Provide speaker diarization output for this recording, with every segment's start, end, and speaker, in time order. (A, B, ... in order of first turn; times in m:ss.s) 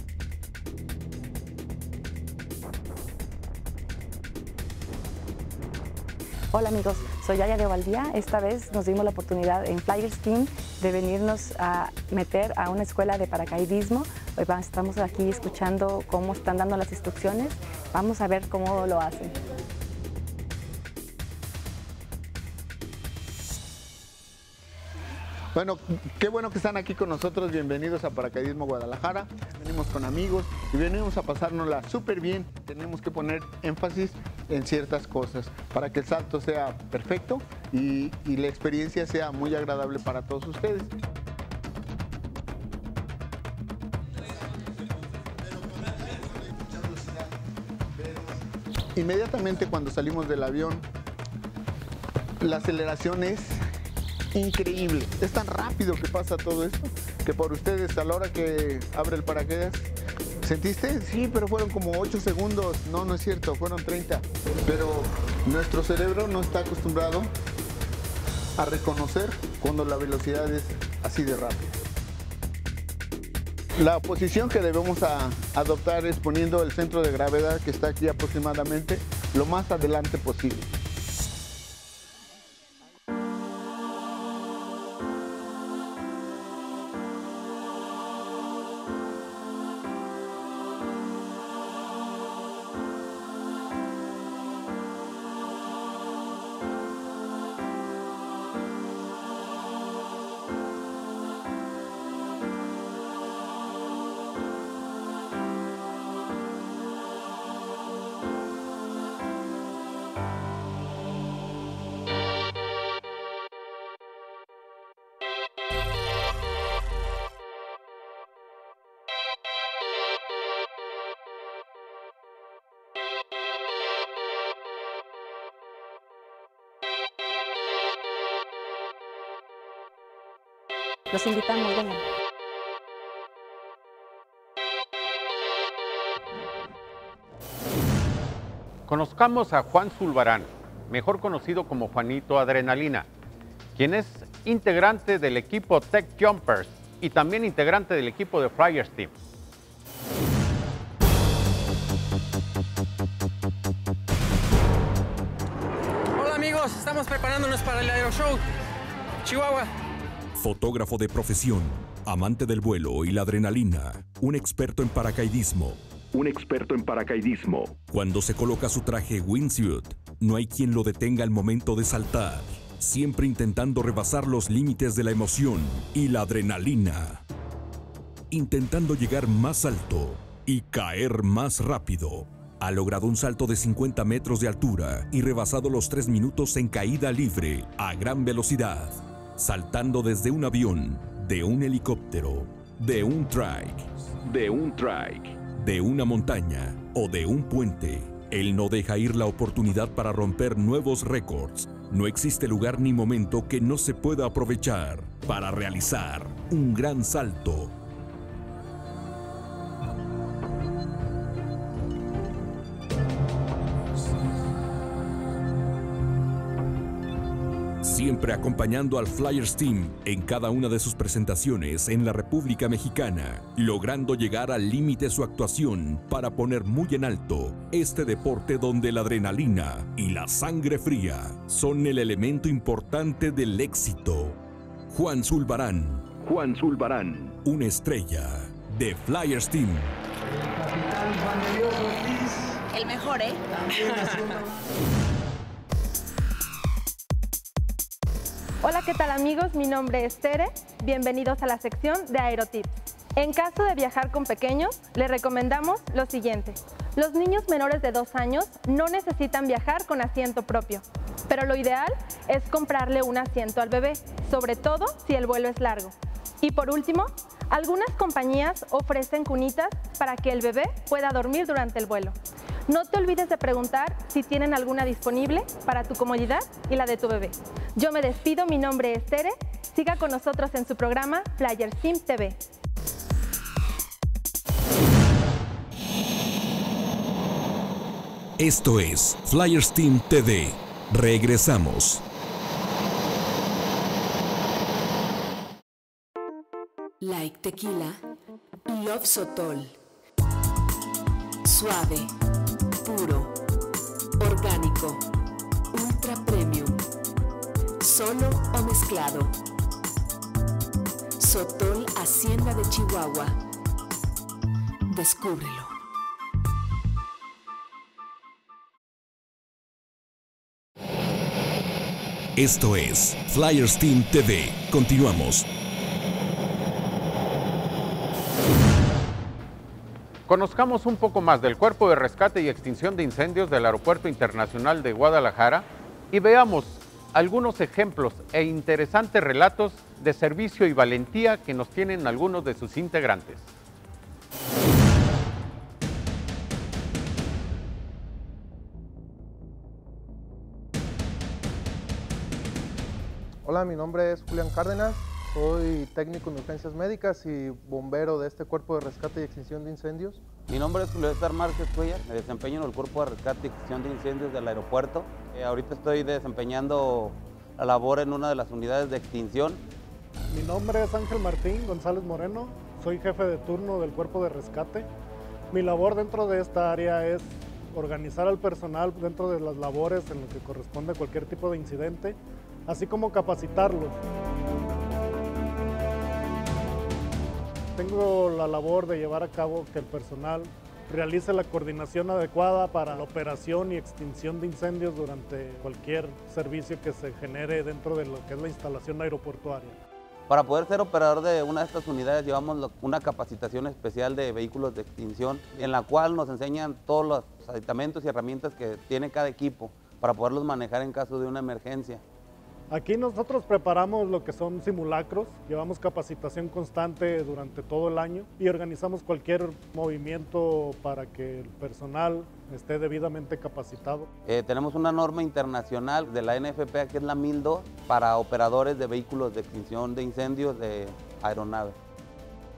0:06.5-0:19.4 A
0:25.5-0:41.0 B
0:45.5-0:47.4 B
0:47.9-0:48.4 B
0:49.0-0:50.9 B
0:52.4-0:53.6 B
0:54.3-0:59.9 B
1:00.4-1:07.3 B
1:08.6-1:11.8 B
1:13.8-1:20.7 B
2:11.1-2:12.0 A
2:18.9-2:23.1 C
2:23.8-2:29.1 C
2:36.2-2:38.4 D
2:39.2-2:39.7 D
2:40.4-2:57.2 E
2:58.3-3:27.7 E
3:37.8-3:54.4 E
3:54.9-4:00.0 E
4:03.9-4:04.2 D
4:08.6-4:32.2 F
4:32.7-4:42.4 F
4:48.4-4:52.0 E
4:57.0-4:58.0 G
4:58.7-4:59.8 G
5:01.4-5:02.1 G
5:02.8-5:03.4 G
5:04.2-5:05.0 G
5:05.7-5:06.8 G
5:07.8-5:09.4 G
5:11.2-5:13.4 G
5:14.9-5:15.8 G
5:22.4-5:25.5 E
5:30.3-5:43.5 C
5:53.4-6:00.2 H
6:00.5-6:09.6 I
6:10.3-6:14.9 J
6:15.5-6:22.2 J
6:22.7-6:24.0 J
6:27.8-6:39.8 J
6:40.3-6:52.0 I
6:52.7-7:04.1 J
7:04.3-7:11.8 I